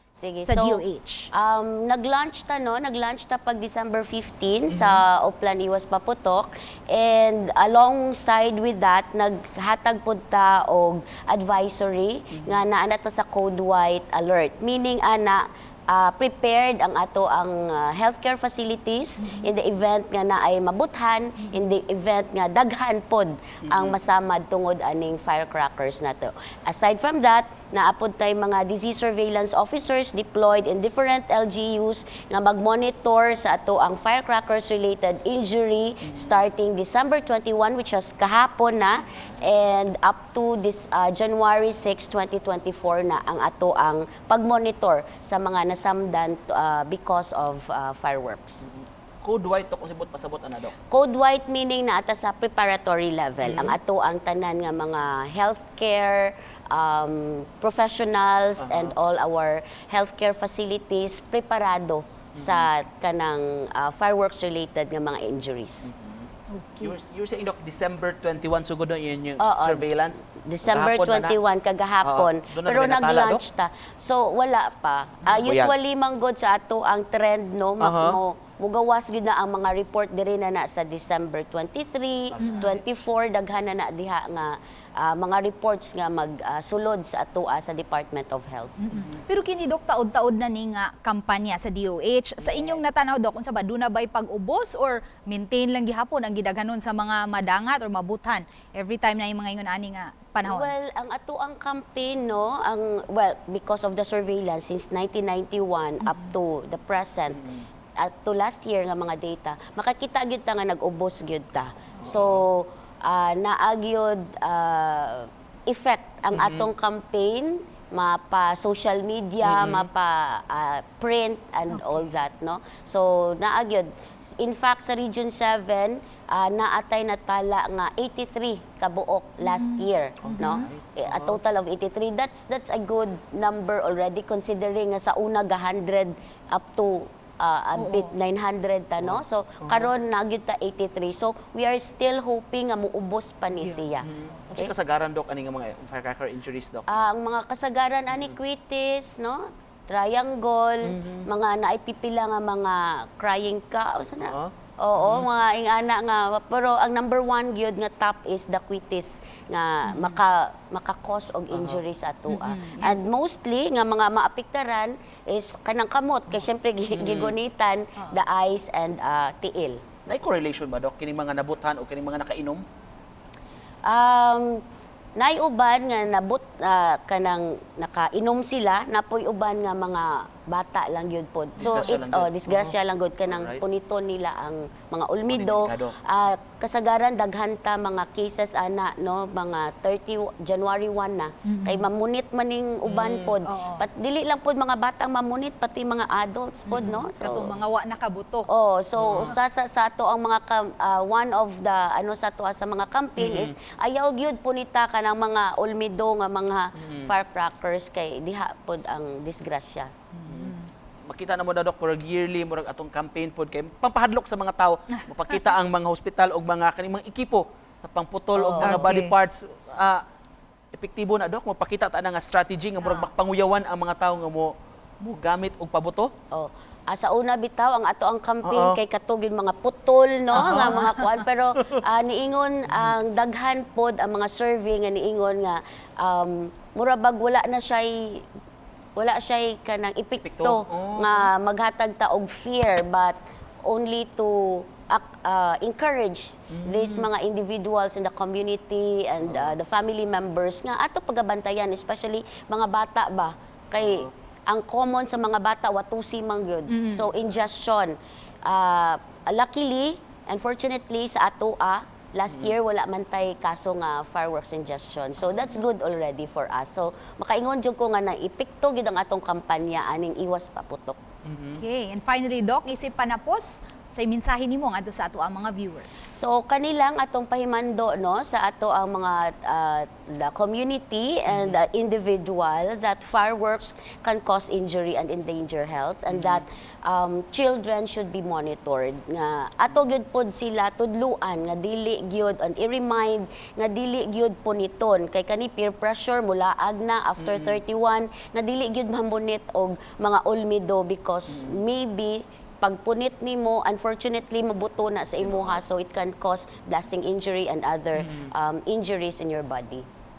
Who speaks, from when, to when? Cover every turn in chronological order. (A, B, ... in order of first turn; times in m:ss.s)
0:00.2-0:48.6 A
0:00.4-0:01.3 B
0:04.7-0:05.0 C
0:12.3-0:12.6 C
0:19.2-0:19.5 B
0:23.6-0:24.0 C
0:36.1-0:36.4 C
0:48.6-0:50.7 C
0:50.9-1:05.9 A
0:53.4-0:53.8 C
0:58.6-0:58.9 C
1:02.4-1:02.7 C
1:05.8-1:11.4 C
1:06.5-1:07.0 B
1:09.4-1:28.8 A
1:12.0-1:13.4 C
1:15.3-1:15.7 C
1:17.8-1:18.2 C
1:22.3-1:22.8 C
1:22.4-1:22.7 B
1:28.8-1:40.7 B
1:28.9-1:29.2 C
1:32.4-1:32.9 A
1:40.4-1:47.5 A
1:46.0-1:46.3 B
1:47.3-1:47.7 C
1:48.0-2:24.7 A
1:52.0-1:52.4 C
1:56.3-1:56.7 C
1:59.4-1:59.9 C
2:01.7-2:02.1 B
2:09.4-2:10.7 B
2:10.2-2:11.4 C
2:17.8-2:18.1 B
2:19.0-2:19.9 C
2:23.6-2:23.8 B
2:24.0-2:27.0 C
2:26.9-2:49.8 A
2:28.1-2:28.4 C
2:30.8-2:31.3 C
2:34.2-2:35.3 C
2:39.9-2:40.2 B
2:41.5-2:41.8 C
2:42.3-2:43.0 B
2:46.9-2:47.4 C
2:50.1-2:52.6 C
2:53.9-2:54.6 A
2:55.2-3:17.6 A
3:01.6-3:03.6 C
3:01.6-3:02.0 B
3:05.3-3:06.0 C
3:11.4-3:11.9 B
3:12.9-3:13.4 C
3:13.5-3:13.8 B
3:16.7-3:18.5 B
3:18.5-3:29.9 A
3:19.0-3:19.4 C
3:23.2-3:23.6 C
3:26.8-3:27.1 C
3:30.1-3:30.7 B
3:30.3-3:30.6 C
3:31.1-3:40.0 C
3:38.4-3:38.9 A
3:38.6-3:39.2 B
3:40.7-3:46.1 C
3:42.8-3:43.1 B
3:46.3-3:58.2 A
3:48.4-3:48.8 C
3:50.3-3:51.0 C
3:50.3-3:51.0 B
3:59.0-4:31.0 A
4:00.2-4:01.3 C
4:06.5-4:07.1 C
4:09.2-4:09.6 C
4:13.8-4:14.1 C
4:16.7-4:17.1 B
4:22.3-4:22.6 C
4:31.2-4:31.6 C
4:31.6-4:36.2 B
4:36.2-5:09.8 A
4:41.3-4:41.6 C
4:46.1-4:46.4 C
4:57.2-4:57.6 C
5:01.3-5:01.6 C
5:05.2-5:05.6 C
5:08.0-5:08.3 C